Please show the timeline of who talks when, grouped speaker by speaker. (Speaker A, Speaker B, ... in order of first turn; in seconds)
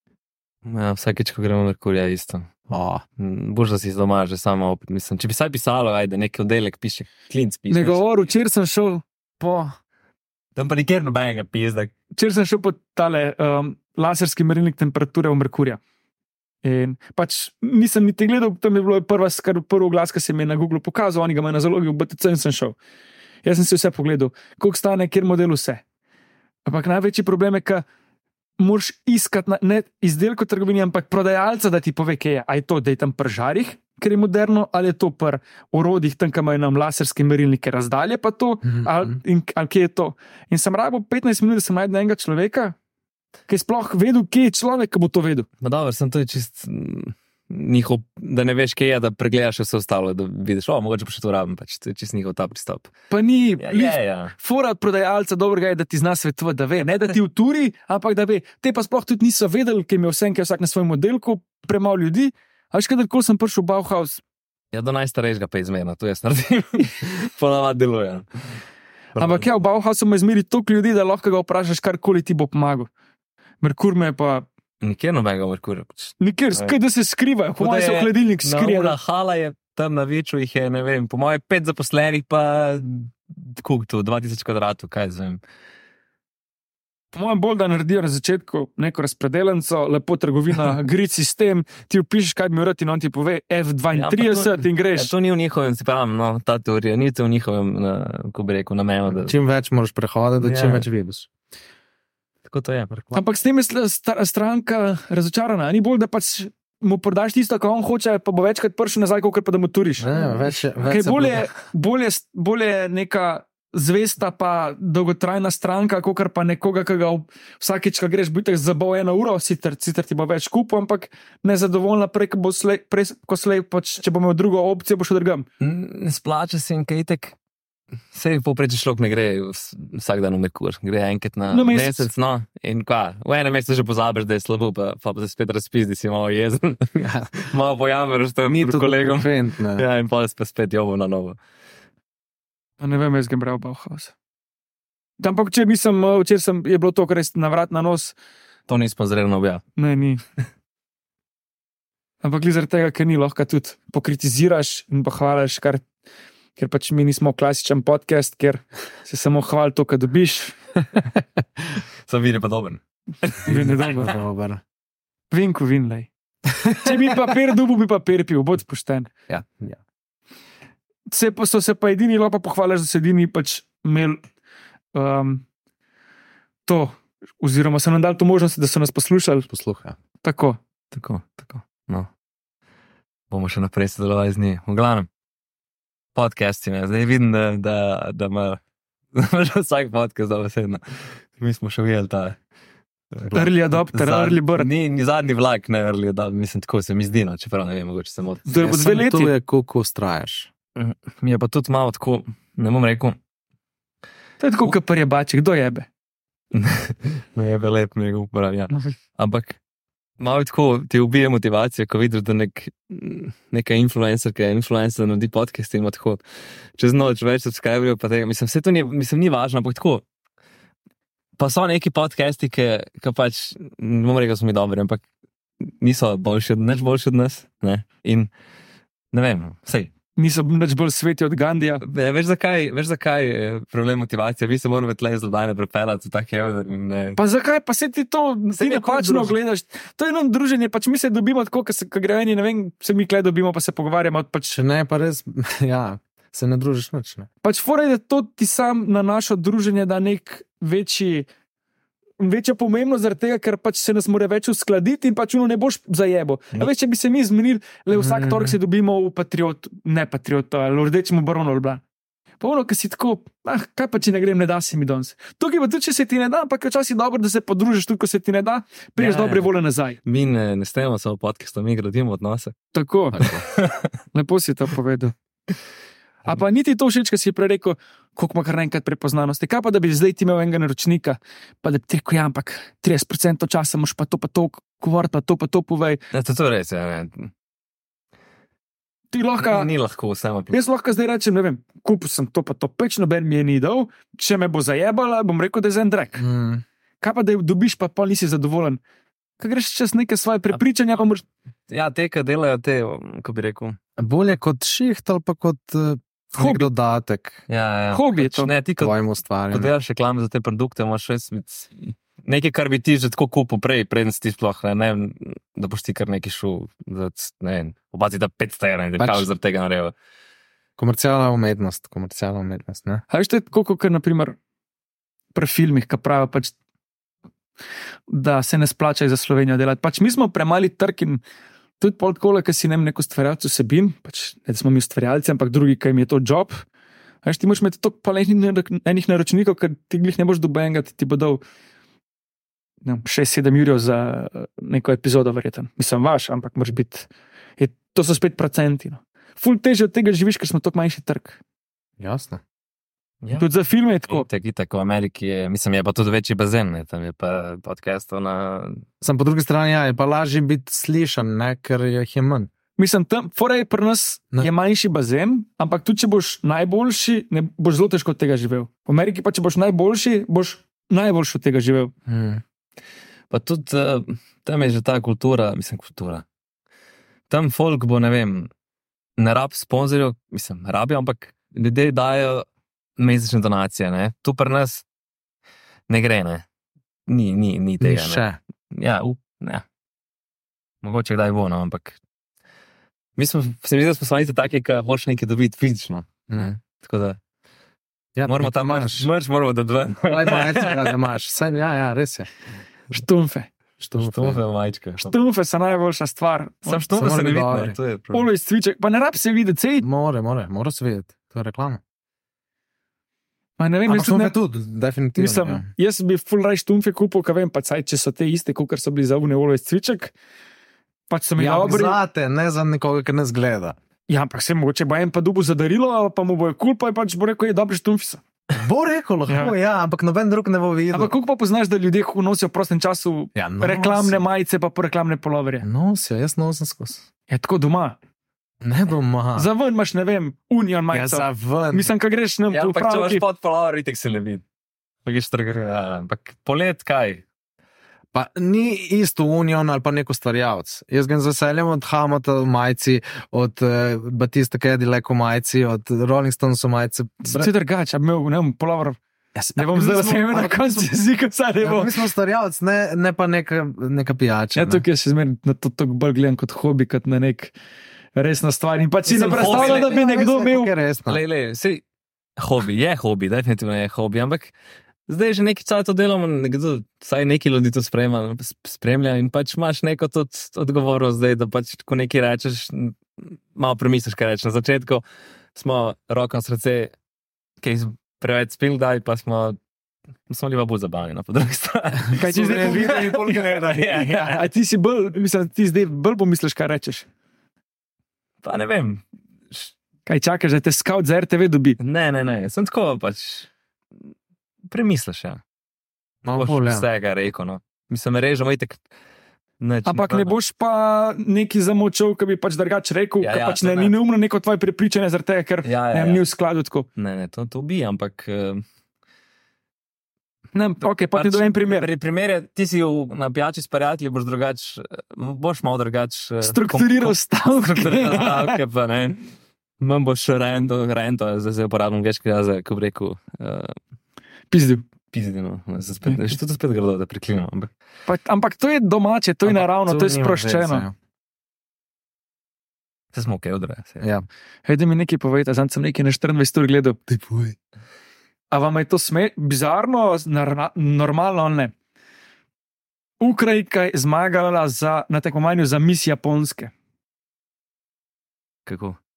Speaker A: 0.6-2.5, 3.2-8.0, 10.6-11.9, 45.6-52.9, 53.6-54.3, 64.7-68.2, 69.2-69.5, 74.8-76.8, 77.6-85.4, 93.9-99.3, 100.4-100.9, 102.5-103.1, 110.1-110.4, 125.6-127.4, 128.1-141.4, 148.7-149.6, 162.0-163.5, 180.9-182.1, 183.3-185.1, 186.1-188.6, 189.1-192.4, 193.1-198.8, 200.8-203.2, 206.5-209.6, 210.2-216.2, 216.8-220.0, 221.4-225.0, 225.6-228.3, 229.1-229.9, 231.8-237.2, 238.5-239.4, 269.0-269.5, 270.0-272.5, 273.2-273.9, 286.1-287.3, 289.4-290.6, 301.7-303.8, 307.5-309.0, 309.5-319.9, 353.2-353.5, 354.1-358.8, 373.3-376.2, 377.3-378.5, 379.2-382.4, 383.0-384.8, 385.9-386.4, 387.1-389.6, 390.8-392.0, 393.2-397.2, 398.2-401.0, 404.0-405.1, 406.6-408.3, 442.5-444.4, 445.1-447.2, 469.1-469.9, 471.1-471.8, 472.4-474.5, 475.1-485.0, 485.6-486.9, 487.6-489.6, 490.3-494.4, 498.4-499.7, 501.8-503.5, 504.7-505.4, 506.4-508.8, 509.6-510.3, 513.2-513.9, 515.6-516.2, 517.0-518.6, 521.0-529.3, 529.8-533.8, 535.1-537.7, 543.1-544.1, 558.6-559.0
Speaker B: 2.7-3.0, 9.4-9.7, 38.6-39.2, 99.1-101.3, 110.0-111.5, 136.9-137.3, 138.5-139.8, 163.5-164.6, 166.5-166.9, 169.5-169.8, 179.5-180.0, 198.6-200.5, 244.5-247.3, 257.9-258.6, 273.1-273.4, 296.2-296.6, 304.0-307.4, 308.8-309.7, 319.0-319.3, 320.8-323.0, 352.0-352.4, 359.0-362.5, 372.1-372.4, 387.8-388.4, 396.3-396.6, 398.1-399.1, 400.1-402.3, 403.8-404.4, 406.9-407.8, 409.8-411.8, 413.9-415.7, 421.4-423.8, 428.5-431.1, 433.4-434.2, 435.6-437.0, 438.6-439.5, 440.9-441.9, 448.1-457.5, 459.4-460.9, 461.6-464.9, 469.1-471.2, 492.1-494.2, 506.2-506.9, 539.4-540.9, 544.0-544.3, 547.1-547.6
Speaker C: 7.7-9.0, 12.2-15.8, 16.6-22.8, 23.4-25.8, 26.6-27.9, 28.6-42.8, 43.5-45.5, 53.1-64.2, 69.2-72.9, 73.6-74.5, 76.2-79.0, 87.1-95.1, 103.1-110.1, 110.8-125.5, 131.5-132.1, 142.8-144.1, 145.2-148.1, 149.8-150.2, 152.2-155.8, 156.6-160.6, 163.4-164.1, 165.3-166.1, 166.8-169.1, 171.1-174.2, 174.9-175.4, 176.7-179.5, 180.2-180.6, 193.3-194.7, 198.5-199.3, 204.4-205.9, 230.2-231.8, 237.2-244.5, 247.4-251.3, 252.2-261.8, 262.4-270.0, 272.7-273.2, 274.1-275.1, 276.2-286.0, 289.1-289.7, 290.5-296.2, 297.0-298.8, 299.4-301.2, 306.4-306.7, 307.9-308.5, 323.1-324.4, 325.4-326.5, 328.1-331.2, 331.8-336.6, 337.2-341.4, 342.9-351.4, 353.4-354.2, 362.8-371.9, 402.9-403.5, 405.0-406.8, 408.1-409.9, 413.6-414.4, 415.2-420.1, 421.1-422.0, 424.1-428.2, 429.3-429.5, 430.9-435.6, 437.3-438.0, 439.4-443.2, 457.2-459.0, 459.6-462.0, 464.5-467.5, 468.1-470.7, 492.2-493.4, 493.9-497.1, 500.1-501.8, 509.9-516.9, 520.5-521.9, 526.4-528.6, 534.5-534.9, 538.1-540.9, 544.6-547.0, 548.5-551.7, 553.2-556.7